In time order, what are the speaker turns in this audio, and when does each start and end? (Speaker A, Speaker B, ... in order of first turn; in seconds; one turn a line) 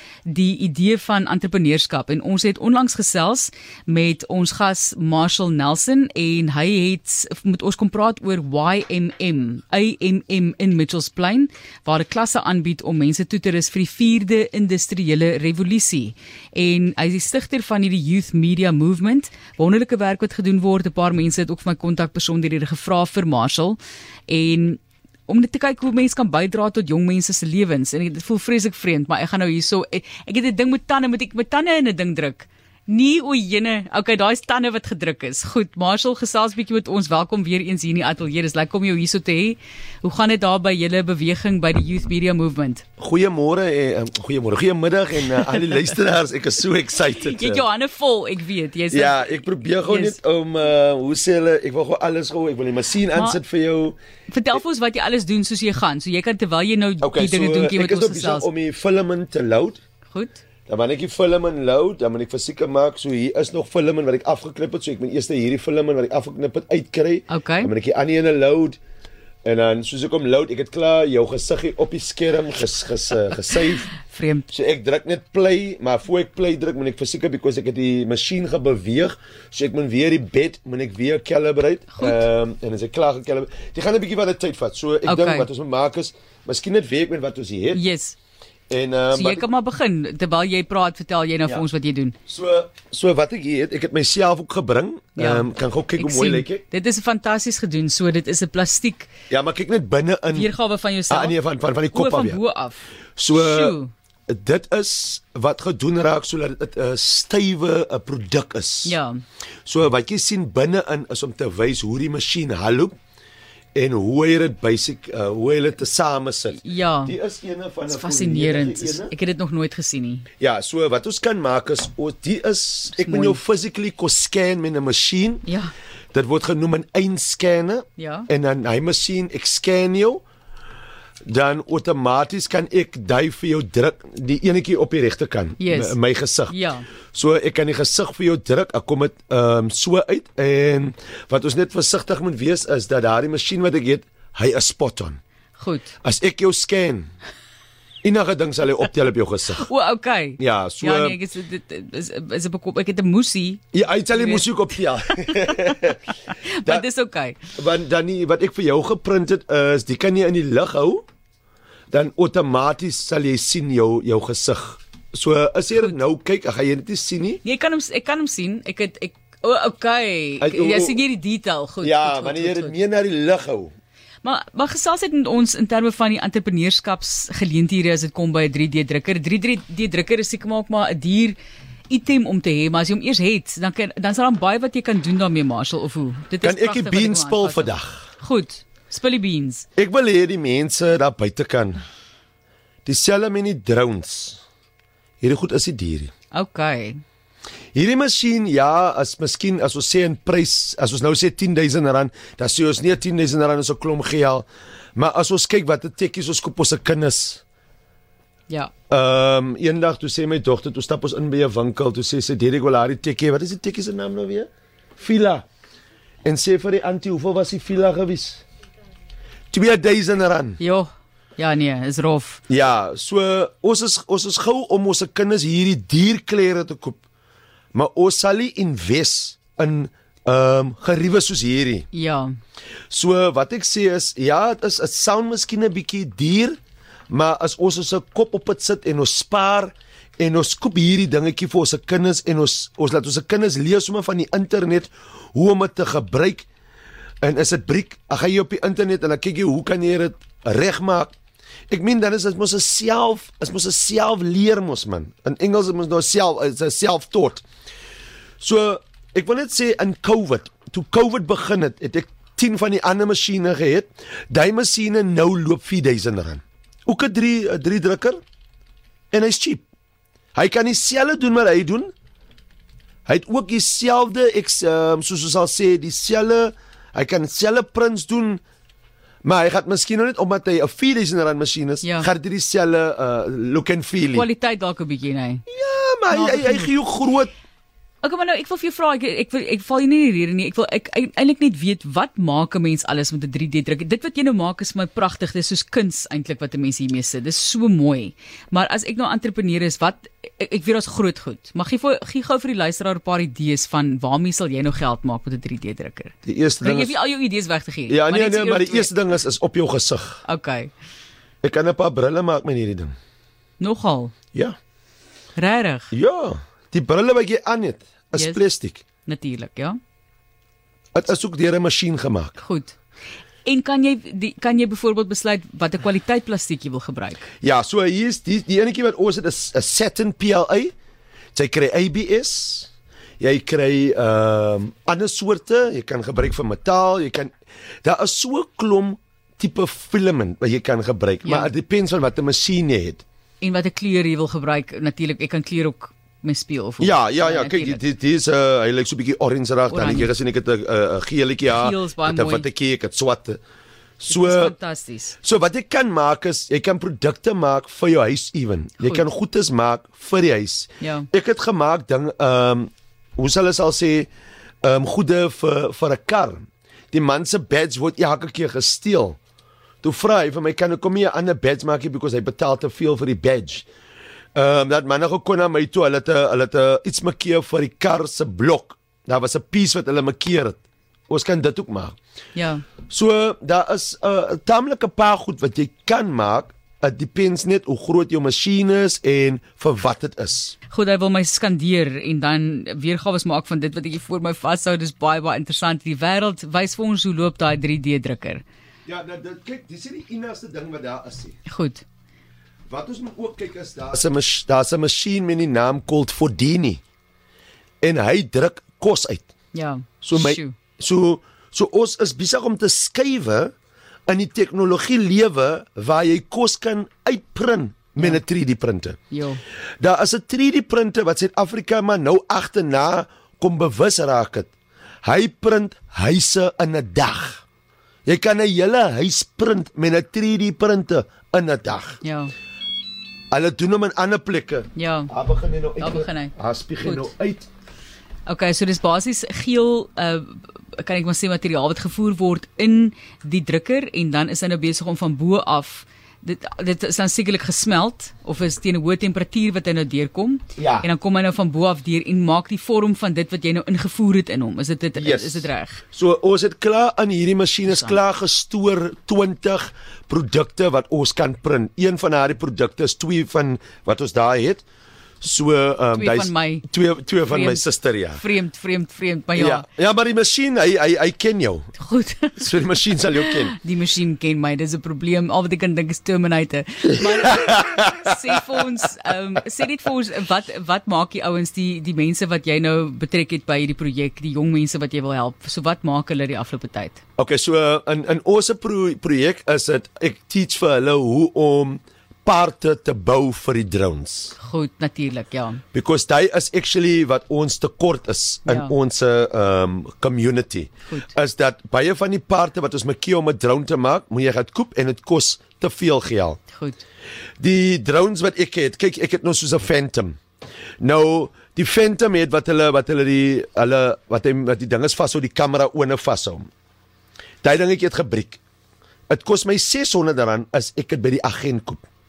Speaker A: 0.3-42.8
Speaker B: 43.0-47.6
Speaker A: 45.5-45.8
Speaker A: 47.1-50.2
Speaker B: 48.9-54.0
Speaker A: 53.1-53.4
Speaker A: 54.3-58.5
Speaker B: 57.0-59.8
Speaker A: 60.1-60.4
Speaker B: 60.7-68.8
Speaker A: 67.3-67.7
Speaker B: 69.5-73.9
Speaker A: 74.0-74.5
Speaker B: 74.5-87.8
Speaker A: 82.0-82.2
Speaker A: 85.1-85.5
Speaker A: 87.7-88.2
Speaker B: 88.7-89.5
Speaker A: 89.1-92.2
Speaker B: 92.3-96.6
Speaker A: 95.2-99.1
Speaker B: 99.3-100.5
Speaker A: 100.3-101.4
Speaker B: 101.1-102.4
Speaker A: 101.9-103.9
Speaker B: 103.2-103.8
Speaker B: 104.3-109.0
Speaker A: 108.8-109.2
Speaker B: 109.7-113.0
Speaker B: 113.8-119.1
Speaker A: 116.6-117.1
Speaker A: 117.9-120.3
Speaker B: 120.4-125.4
Speaker A: 123.0-123.4
Speaker A: 125.5-125.7
Speaker B: 126.1-130.2
Speaker A: 128.0-128.3
Speaker B: 131.3-136.6
Speaker A: 135.6-136.0
Speaker A: 136.5-136.9
Speaker B: 137.1-145.2
Speaker A: 145.6-145.9
Speaker B: 146.0-147.1
Speaker B: 148.0-149.7
Speaker A: 149.6-154.5
Speaker B: 150.4-151.2
Speaker B: 153.7-156.0
Speaker A: 156.3-157.4
Speaker B: 157.6-161.1
Speaker B: 161.9-167.4
Speaker A: 167.4-172.8
Speaker B: 170.4-171.0
Speaker B: 171.8-173.7
Speaker A: 174.2-181.4
Speaker A: 181.9-189.7
Speaker B: 186.4-188.1
Speaker B: 189.8-191.8
Speaker B: 192.8-194.4
Speaker B: 195.2-196.1
Speaker A: 196.3-197.0
Speaker B: 197.7-207.4
Speaker B: 208.9-215.4
Speaker B: 216.2-218.4
Speaker B: 219.5-220.6
Speaker A: 220.6-222.4
Speaker B: 222.5-227.0
Speaker B: 227.7-231.9
Speaker A: 231.9-232.3
Speaker B: 232.9-236.6
Speaker B: 237.1-246.5
Speaker B: 247.2-251.1
Speaker B: 251.7-257.4
Speaker B: 258.4-268.2
Speaker B: 269.1-269.6
Speaker B: 270.4-271.9
Speaker B: 273.1-278.4
Speaker B: 279.2-284.3
Speaker A: 281.8-282.1
Speaker A: 284.1-285.4
Speaker B: 285.5-287.3
Speaker A: 286.1-286.7
Speaker A: 288.0-308.9
Speaker B: 306.2-306.9
Speaker B: 307.9-310.2
Speaker A: 310.2-310.7
Speaker B: 311.4-312.9
Speaker A: 313.6-314.1
Speaker A: 315.4-315.9
Speaker B: 315.9-318.8
Speaker A: 318.1-318.4
Speaker A: 319.1-319.8
Speaker B: 320.9-322.4
Speaker A: 322.4-322.8
Speaker A: 323.4-327.3
Speaker B: 327.4-330.7
Speaker B: 331.4-332.7
Speaker B: 333.2-337.3
Speaker B: 337.8-343.0
Speaker A: 341.2-341.5
Speaker A: 343.4-347.8
Speaker B: 346.8-353.4
Speaker A: 349.7-350.1
Speaker A: 351.5-352.5
Speaker B: 354.0-354.5
Speaker A: 354.1-355.2
Speaker B: 355.2-364.1
Speaker A: 358.8-359.1
Speaker A: 360.8-361.1
Speaker B: 364.6-366.4
Speaker B: 366.9-369.2
Speaker B: 369.8-373.7
Speaker B: 374.4-382.0
Speaker A: 382.4-382.6
Speaker B: 382.9-390.6
Speaker A: 390.7-398.4
Speaker B: 398.9-401.4
Speaker A: 401.5-401.8
Speaker B: 402.7-406.8
Speaker B: 407.8-409.3
Speaker A: 409.5-410.6
Speaker B: 410.0-413.5
Speaker B: 414.1-419.0
Speaker A: 419.1-419.4
Speaker B: 419.8-424.5
Speaker B: 425.0-427.4
Speaker B: 428.1-432.0
Speaker A: 432.0-432.3
Speaker B: 433.3-437.5
Speaker A: 434.8-435.1
Speaker A: 435.8-436.3
Speaker A: 436.8-437.1
Speaker A: 438.3-455.8
Speaker B: 450.6-450.9
Speaker B: 455.0-464.6
Speaker A: 457.7-458.0
Speaker B: 465.2-468.2
Speaker A: 465.9-466.6
Speaker A: 467.2-469.7
Speaker B: 469.4-471.7
Speaker A: 471.8-472.6
Speaker B: 472.4-473.6
Speaker A: 473.1-487.0
Speaker B: 476.9-478.6
Speaker B: 487.2-494.4
Speaker A: 494.4-495.6
Speaker B: 495.7-506.4
Speaker A: 498.5-498.7
Speaker A: 506.5-506.8
Speaker B: 507.4-510.2
Speaker B: 510.8-516.5
Speaker B: 517.4-518.4
Speaker B: 519.1-521.9